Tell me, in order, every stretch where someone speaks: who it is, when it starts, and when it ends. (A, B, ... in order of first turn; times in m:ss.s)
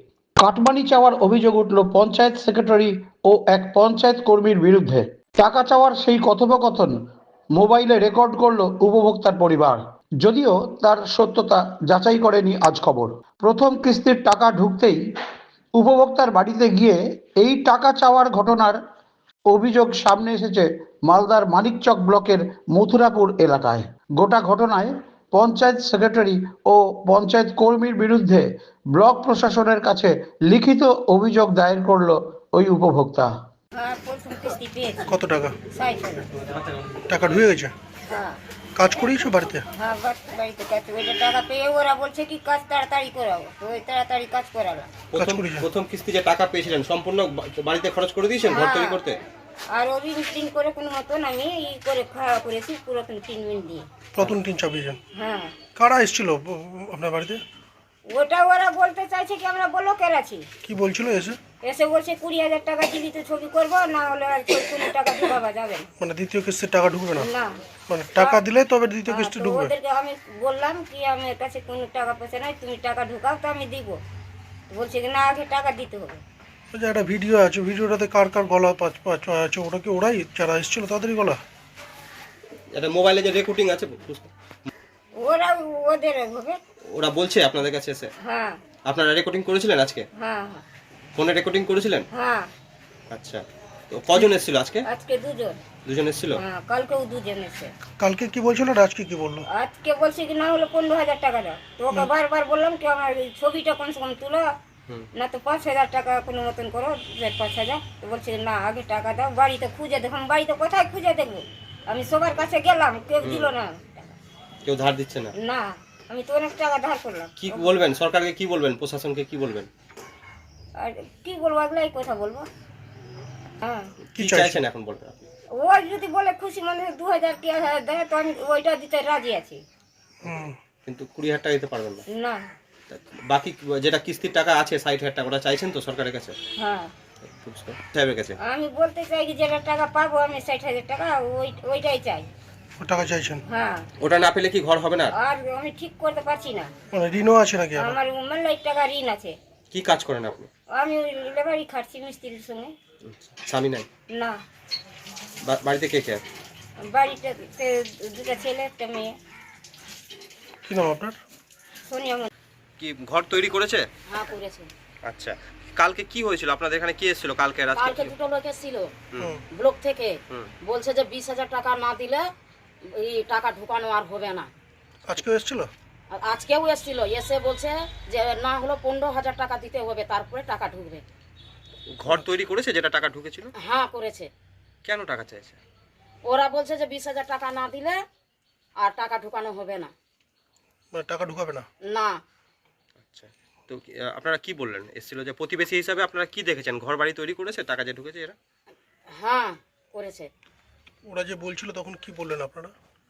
0:00.4-0:06.9 A
0:07.6-0:15.0 A
0:15.7-0:18.8 A
0:19.5-0:33.3 A
0:33.7-0:35.2 B
0:35.1-0:35.6 C
0:35.7-0:36.3 B
0:36.5-0:36.9 D
0:37.1-0:37.7 C
0:38.1-0:38.4 B
0:38.8-0:39.6 C
0:39.7-0:45.0 B
0:45.1-0:45.7 C
0:45.1-0:49.2 D
0:48.5-0:49.0 B
0:49.7-0:53.9 B
0:54.2-0:55.0 C
0:55.1-0:55.6 B
0:55.7-0:57.4 C
0:58.0-1:00.5 B
1:00.6-1:01.4 C
1:01.6-1:05.9 B
1:06.0-1:07.3 C
1:07.2-1:07.6 B
1:07.9-1:09.7 C
1:08.2-1:08.4 B
1:09.1-1:14.0 B
1:14.7-1:16.2 B
1:16.7-1:21.4 C
1:22.7-1:24.3 D
1:25.2-1:26.6 B
1:26.9-1:28.1 D
1:28.2-1:28.6 B
1:28.9-1:30.0 D
1:30.2-1:30.6 B
1:31.2-1:32.0 D
1:32.1-1:32.5 B
1:33.1-1:34.8 D
1:34.9-1:35.6 B
1:35.8-1:36.4 D
1:36.4-1:37.7 B
1:38.0-1:39.4 C
1:39.5-1:44.6 B
1:45.1-1:54.2 B
1:53.2-1:53.5 D
1:54.6-1:55.3 D
1:55.4-1:57.3 B
1:57.4-1:59.7 D
2:00.8-2:02.5 B
2:03.6-2:03.9 B
2:04.2-2:05.3 D
2:04.2-2:04.6 C
2:05.6-2:09.6 B
2:10.2-2:10.6 C
2:10.8-2:12.0 D
2:12.1-2:12.5 B
2:12.9-2:16.3 D
2:16.6-2:16.9 B
2:17.2-2:18.3 D
2:18.4-2:22.3 B
2:22.8-2:23.4 C
2:23.4-2:23.9 B
2:24.0-2:25.1 D
2:25.1-2:26.7 B
2:26.9-2:27.9 C
2:27.8-2:29.4 B
2:29.7-2:30.5 D
2:30.7-2:32.8 B
2:33.0-2:33.9 D
2:34.1-2:34.4 B
2:35.4-2:36.2 D
2:36.8-2:39.2 B
2:40.6-2:41.2 C
2:41.8-2:42.3 B
2:42.8-2:43.9 D
2:44.1-2:44.7 E
2:45.0-2:48.1 D
2:47.8-2:48.9 E
2:49.5-2:52.2 E
2:52.9-2:54.5 E
2:55.1-2:55.7 C
2:56.1-3:01.0 E
3:02.0-3:03.5 D
3:03.6-3:04.3 E
3:04.8-3:05.6 D
3:06.2-3:08.0 E
3:08.8-3:09.9 E
3:10.9-3:11.6 C
3:11.9-3:12.2 E
3:13.0-3:18.4 D
3:19.1-3:20.3 E
3:21.0-3:22.7 C